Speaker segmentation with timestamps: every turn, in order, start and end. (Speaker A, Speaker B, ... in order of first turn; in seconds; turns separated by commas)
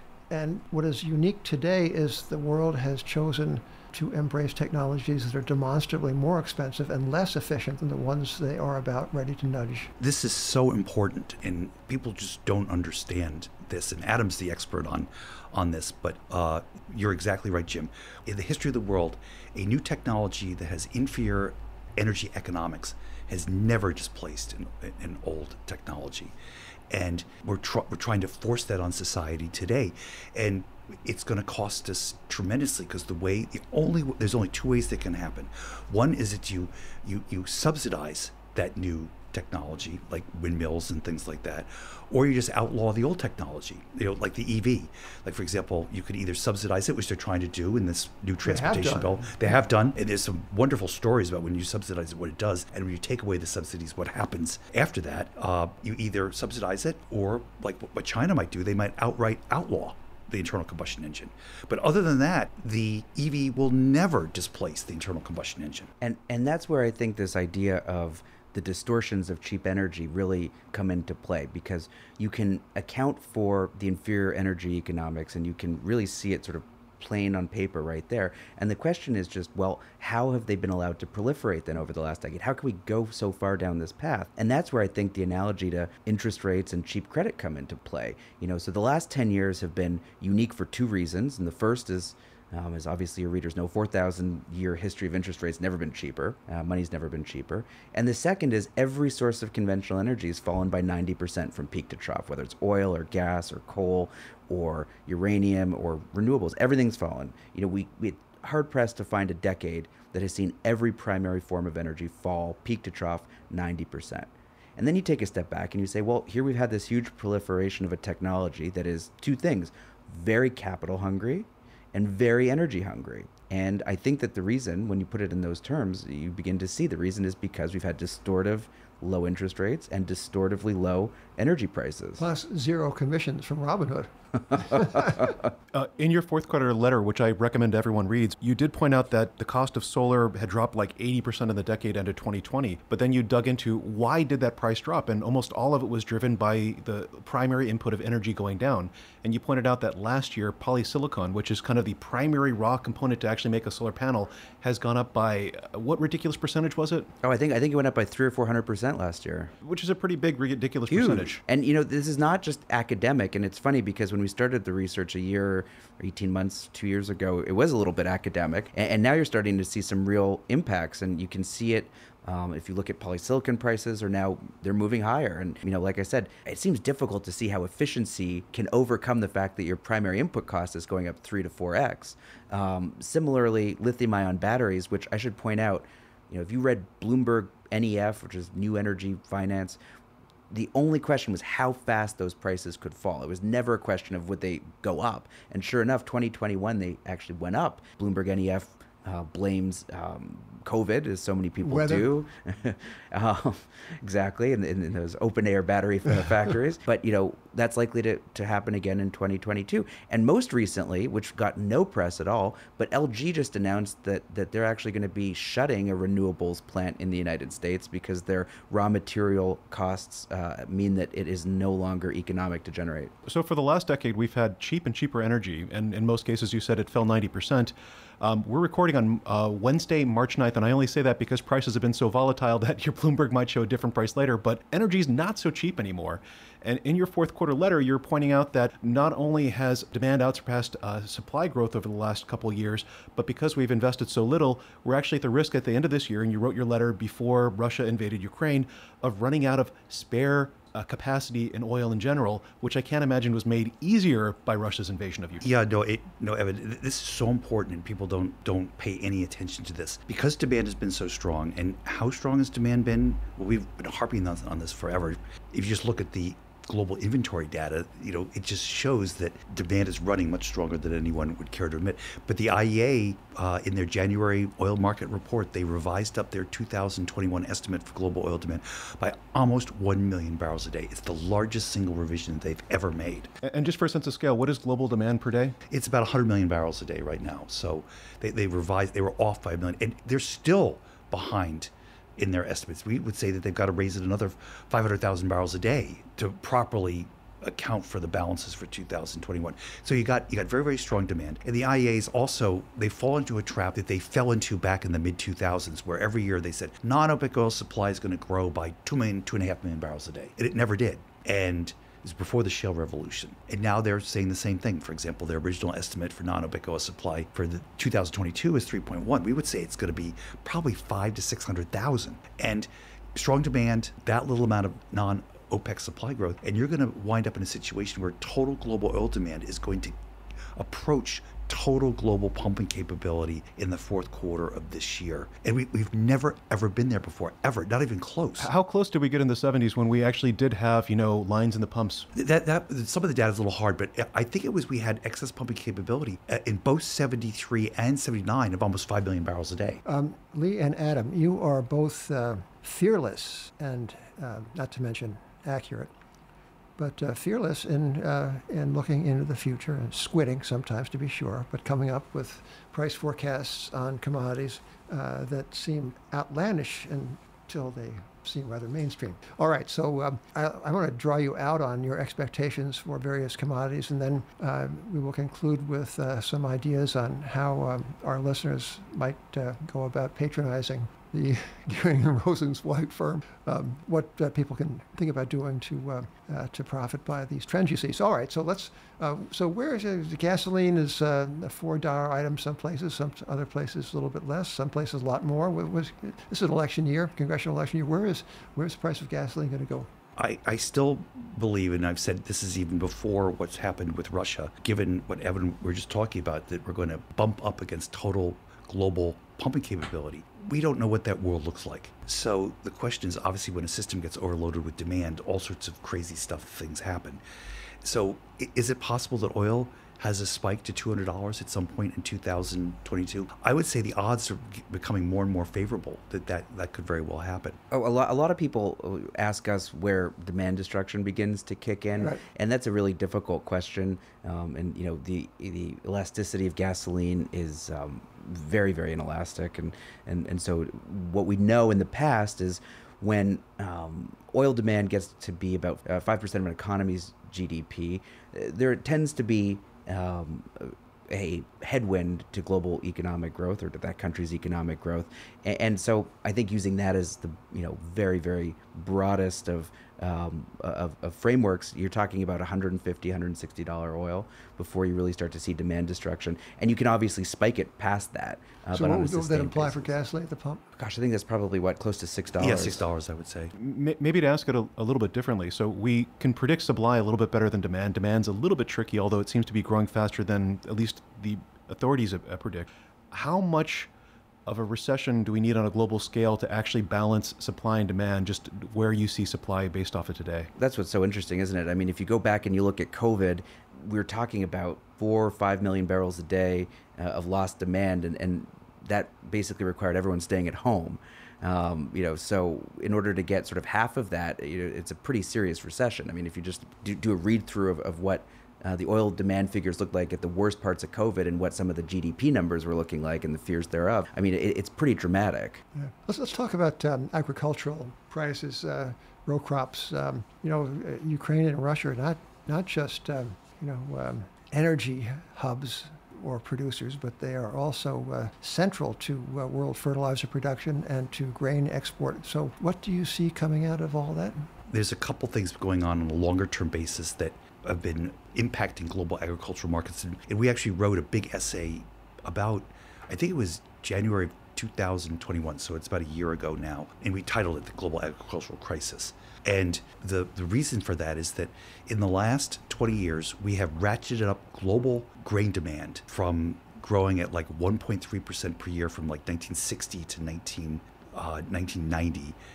Speaker A: 0.3-9.9, Speaker B: 10.0-26.3, Speaker B: 26.9-65.9, Speaker A: 48.4-49.2, Speaker C: 66.0-132.2, Speaker A: 132.2-135.2, Speaker D: 135.7-157.1, Speaker C: 157.2-159.5, Speaker D: 159.6-161.4, Speaker C: 160.9-189.8, Speaker C: 190.5-223.1, Speaker A: 201.6-202.1, Speaker D: 223.2-255.4, Speaker B: 255.4-283.3, Speaker D: 283.4-285.6, Speaker B: 285.7-329.9, Speaker B: 330.6-338.5, Speaker D: 338.4-342.1, Speaker B: 342.1-349.8, Speaker A: 349.9-355.9, Speaker A: 356.8-399.9, Speaker B: 400.2-417.2, Speaker B: 417.8-427.6, Speaker C: 427.7-469.9, Speaker A: 468.7-470.6, Speaker C: 470.8-472.8, Speaker B: 472.4-473.5, Speaker D: 473.6-483.9, Speaker D: 484.4-490.5, Speaker C: 490.6-515.6, Speaker A: 515.7-534.4, Speaker B: 534.7-562.4